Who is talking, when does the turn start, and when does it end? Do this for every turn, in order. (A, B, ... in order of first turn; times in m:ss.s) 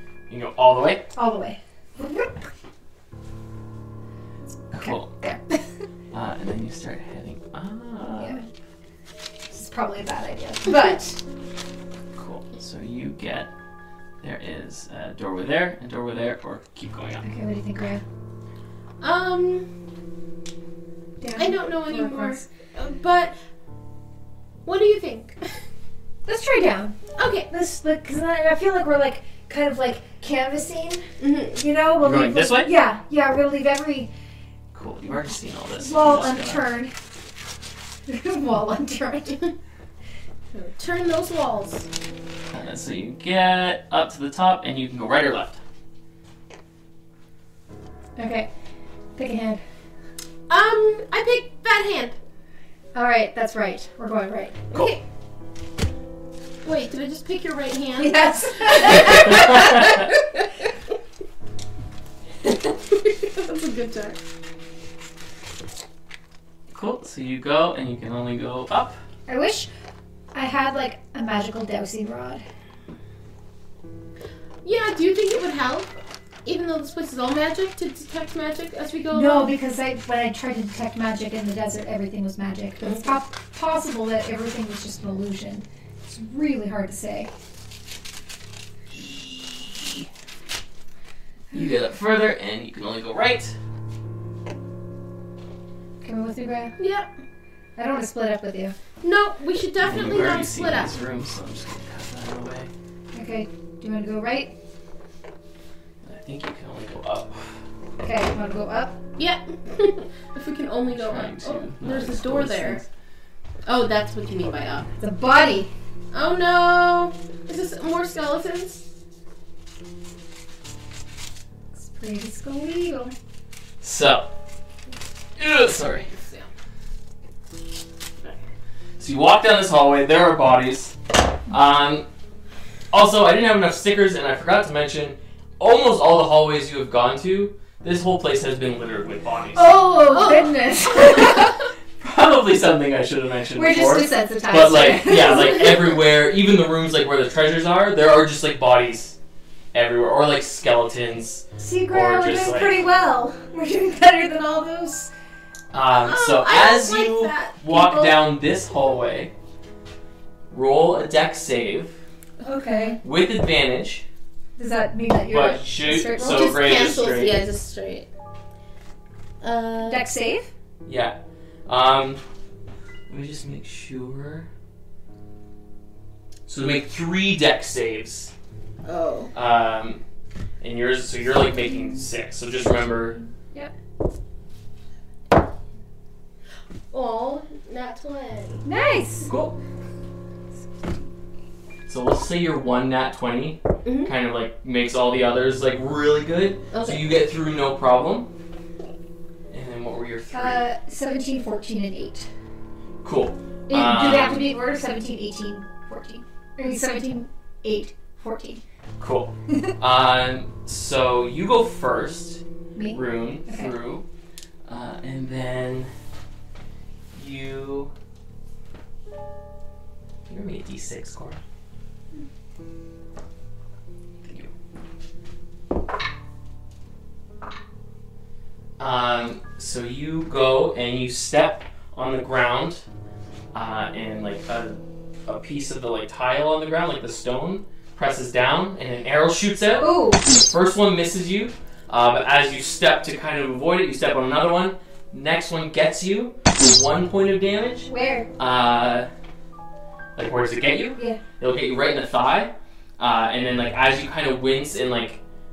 0:00.3-0:01.1 A
0:01.2-0:02.3 B
0:04.7-0:05.1 A
0:04.8-0:05.7 B
0:06.1-0:08.4 A
0:08.2-0:08.5 B
0:09.5-0:11.2 B
0:12.2-0:13.5 A
0:14.2-0:17.3 A
0:17.2-0:18.0 B
0:19.0-0:19.7 C
0:21.2-0:22.5 B
0:21.4-0:23.4 C
0:24.6-0:25.4 C
0:26.3-0:27.0 B
0:27.2-0:27.5 C
0:27.5-0:34.1 B
0:31.2-0:31.6 C
0:32.0-0:32.7 A
0:34.7-0:36.7 A
0:35.8-0:36.9 B
0:38.1-0:39.4 B
0:40.5-0:41.9 C
0:42.5-0:45.6 A
0:48.2-0:48.5 B
0:49.2-0:49.6 B
0:50.5-0:52.2 C
0:52.9-0:54.7 B
0:54.7-0:55.0 C
0:56.6-1:00.2 C
0:58.0-1:00.1 B
0:59.1-1:00.0 A
1:02.5-1:04.2 C
1:06.7-1:09.0 A
1:09.3-1:09.7 B
1:10.3-1:12.4 B
1:14.6-1:19.5 C
1:19.1-1:27.3 B
1:22.8-1:23.1 C
1:28.9-1:30.0 A
1:31.5-1:33.6 A
1:36.0-1:36.8 B
1:36.8-1:37.1 C
1:37.8-1:38.8 B
1:39.0-1:41.0 C
1:39.8-1:42.7 A
1:43.1-1:44.5 B
1:46.0-1:47.6 A
1:48.0-1:49.0 B
1:49.2-1:52.8 C
1:50.9-1:52.9 A
1:53.6-1:54.9 C
1:55.0-1:55.7 B
1:56.1-1:58.8 C
2:01.8-2:03.2 B
2:03.8-2:04.3 A
2:05.4-2:06.1 A
2:06.1-2:06.5 C
2:09.0-2:12.1 A
2:12.9-2:19.8 A
2:19.6-2:21.6 B
2:20.1-2:21.3 C
2:22.0-2:29.2 A
2:23.6-2:26.0 B
2:29.7-2:32.8 A
2:31.6-2:35.1 B
2:35.7-2:39.3 A
2:36.0-2:38.2 C
2:40.5-2:42.0 A
2:42.4-2:43.0 B
2:43.0-2:44.1 A
2:44.6-2:46.8 B
2:45.3-2:47.4 A
2:46.1-2:48.1 C
2:49.4-2:50.1 C
2:49.8-2:50.5 B
2:50.8-2:52.2 A
2:53.1-2:54.5 A
2:56.5-2:58.3 A
2:58.8-2:59.3 C
2:59.3-3:00.0 A
3:00.6-3:03.2 A
3:06.9-3:08.6 C
3:08.6-3:09.3 B
3:09.3-3:09.6 A
3:11.9-3:18.3 A
3:13.8-3:14.1 C
3:16.7-3:17.0 C
3:19.5-3:20.6 A
3:20.3-3:22.3 B
3:23.0-3:24.5 A
3:23.7-3:28.6 B
3:29.0-3:34.0 A
3:32.8-3:33.7 B
3:34.7-3:35.9 A
3:37.1-3:37.9 A
3:40.3-3:41.4 A
3:44.2-3:44.5 A
3:48.8-3:52.8 A
3:53.5-4:09.1 A
3:59.8-4:00.3 B
4:07.9-4:08.3 B
4:10.2-4:15.2 A